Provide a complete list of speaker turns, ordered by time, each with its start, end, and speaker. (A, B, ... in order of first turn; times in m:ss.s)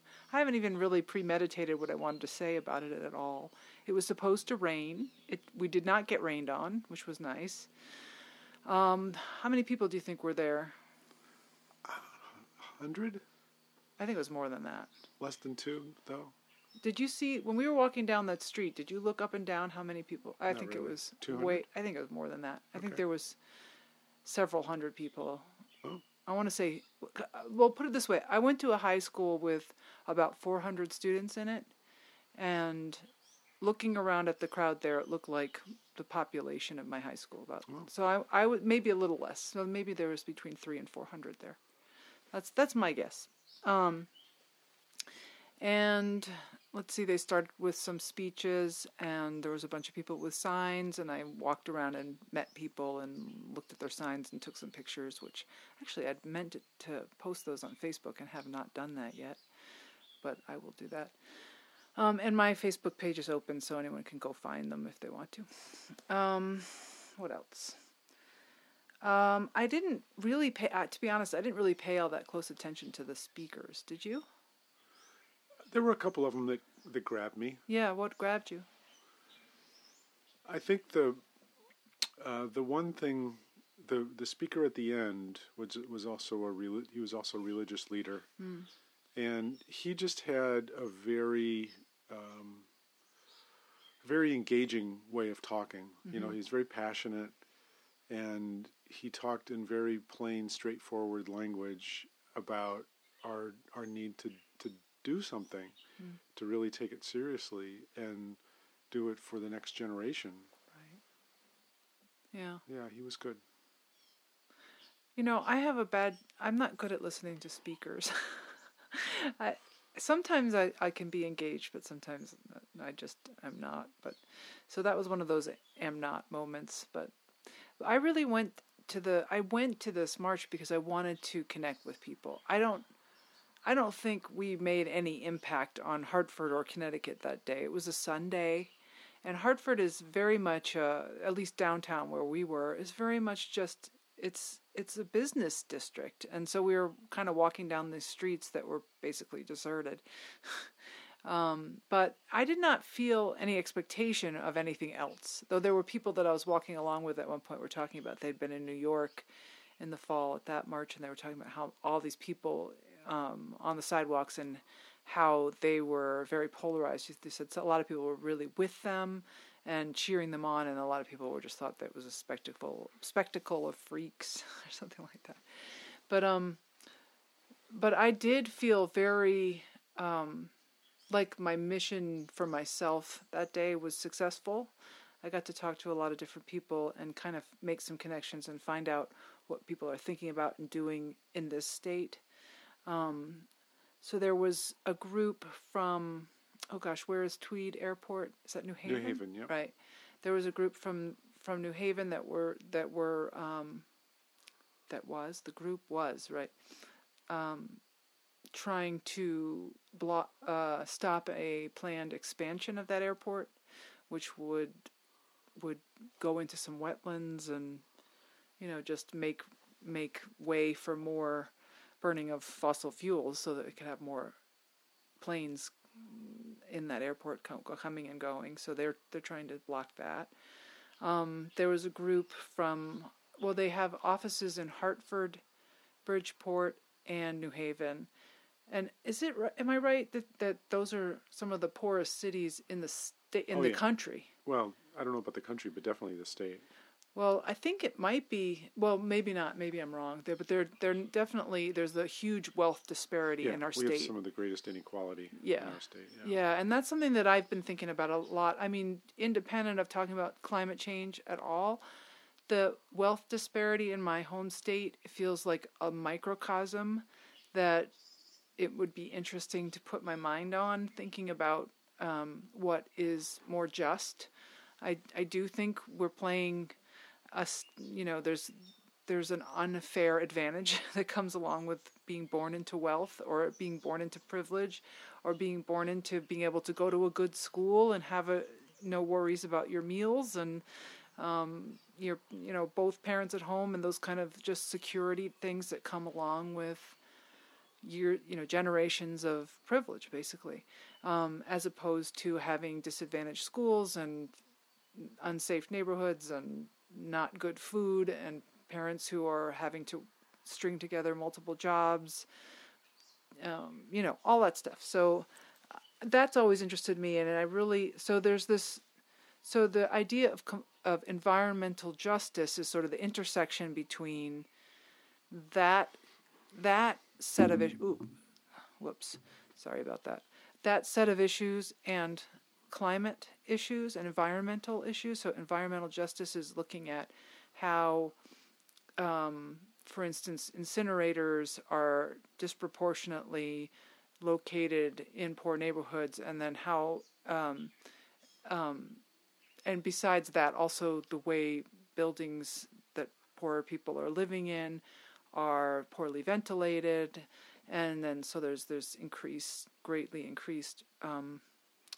0:00.3-0:07.7 A
0:08.6-0:10.8 A
0:11.8-0:13.2 B
0:14.0-0:14.9 A
0:15.2-0:16.3 B
0:16.8-0:23.4 A
0:20.5-0:21.6 B
0:22.7-0:23.0 B
0:24.2-0:25.4 A
0:26.2-0:31.7 A
0:32.3-0:33.1 A
0:33.6-0:41.6 A
0:42.3-0:44.1 A
0:45.6-0:59.4 A
1:00.2-1:01.1 A
1:02.0-1:07.8 A
1:09.0-1:14.2 A
1:15.7-1:17.6 B
1:17.7-1:18.7 A
1:20.4-1:21.2 B
1:22.2-1:28.3 B
1:28.4-1:28.7 A
1:29.1-1:32.7 B
1:34.0-1:37.3 B
1:36.0-1:36.4 A
1:38.1-1:45.8 B
1:46.3-1:48.4 B
1:48.9-1:50.5 B
1:50.7-1:51.0 A
1:52.3-1:52.6 A
1:52.7-1:53.4 B
1:55.2-2:07.1 A
2:07.8-2:12.9 A
2:13.6-2:18.7 A
2:19.2-2:30.7 A
2:31.2-2:39.3 A
2:39.8-2:56.6 A
2:57.7-3:00.5 A
3:01.1-3:12.2 A
3:12.8-3:13.5 A
3:14.0-3:23.8 A
3:18.8-3:19.5 B
3:24.9-3:26.5 A
3:27.3-3:27.8 A
3:28.5-3:33.5 A
3:34.1-3:34.9 A
3:35.6-3:37.8 A
3:38.6-3:44.4 A
3:45.2-3:50.3 A
3:51.0-3:55.4 A
3:56.0-3:58.1 A
3:58.7-4:04.3 A
4:03.5-4:03.8 B
4:04.4-4:06.6 B
4:07.1-4:14.1 A
4:13.4-4:16.3 B
4:15.3-4:21.8 A
4:22.5-4:27.9 A
4:28.6-4:34.3 A
4:34.8-4:36.7 A
4:37.3-4:50.6 A
4:51.2-4:57.0 A
4:57.8-5:04.3 A
5:04.9-5:12.2 A
5:13.4-5:18.8 A
5:19.4-5:24.5 A
5:25.3-5:26.0 A
5:26.5-5:28.1 A
5:28.8-5:38.1 A
5:39.0-5:47.7 A
5:48.4-5:49.0 A
5:49.6-5:54.8 A
5:55.3-6:01.4 A